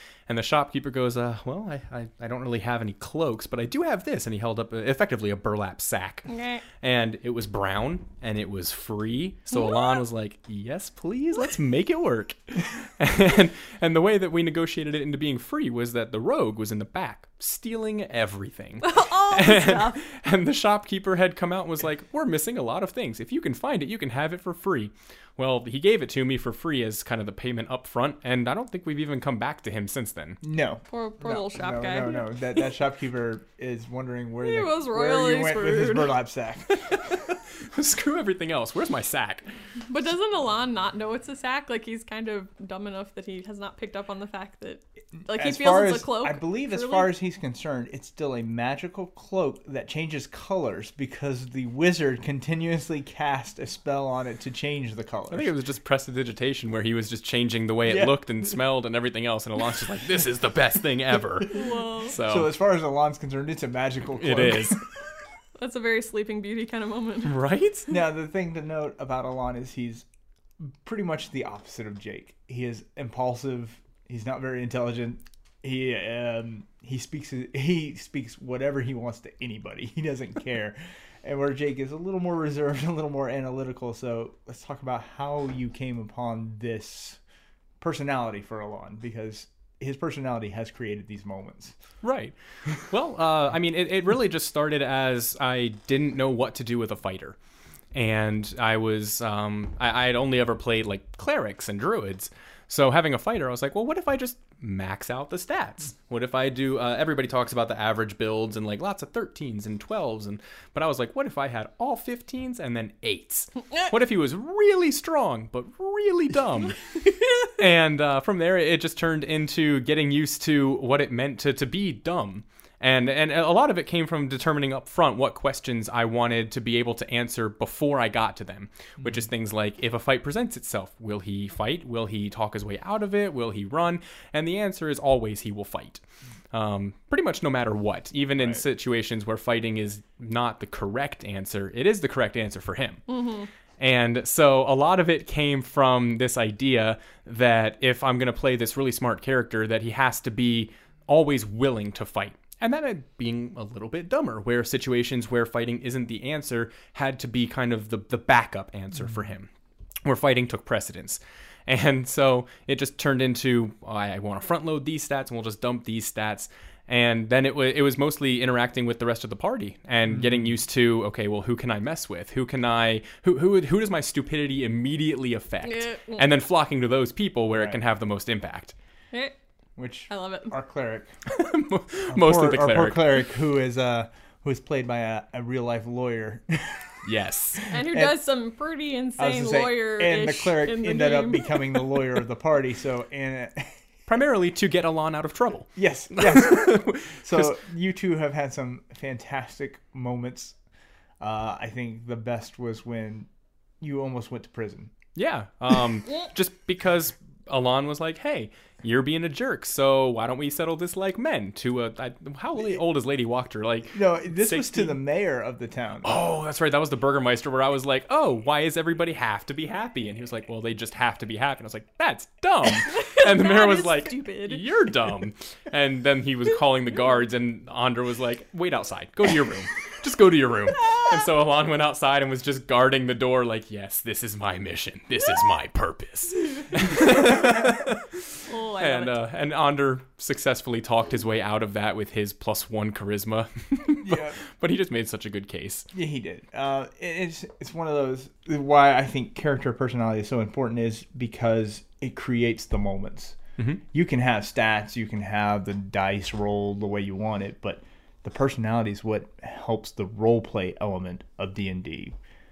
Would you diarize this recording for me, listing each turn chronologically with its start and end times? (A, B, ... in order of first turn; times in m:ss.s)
0:00.3-0:30.4 A
0:06.3-0:06.6 B
0:18.8-0:20.0 B
0:30.4-0:36.9 C
0:30.9-0:32.7 B
0:34.4-0:36.1 B
0:36.8-0:39.5 A
0:39.9-0:47.1 B
0:45.2-0:55.5 C
0:55.3-1:02.5 A
0:57.9-0:58.1 C
1:01.5-1:02.2 B
1:02.2-1:04.8 C
1:04.2-1:04.8 A
1:05.6-1:07.4 B
1:07.2-1:08.0 A
1:07.9-1:10.0 C
1:10.6-1:27.2 C
1:27.8-1:31.8 C
1:32.0-1:37.4 A
1:37.9-2:23.0 A
2:23.1-2:23.5 B
2:23.8-2:39.5 A
2:40.0-2:58.8 A
2:55.7-2:56.3 B
2:57.5-2:57.8 C
2:59.8-3:01.1 C
3:00.1-3:00.5 B
3:01.3-3:03.1 A
3:02.1-3:07.0 C
3:07.0-3:07.7 A
3:07.7-3:11.9 B
3:07.7-3:08.2 C
3:09.2-3:13.8 C
3:14.1-3:17.5 A
3:15.8-3:20.6 C
3:21.2-3:23.3 C
3:23.8-3:24.9 C
3:25.2-3:35.0 A
3:33.9-3:36.1 C
3:36.0-4:05.9 A
3:42.8-3:44.6 B
3:50.8-3:51.1 B
3:58.5-3:59.2 B
4:04.0-4:04.4 C
4:05.9-4:13.4 C
4:13.9-4:22.2 C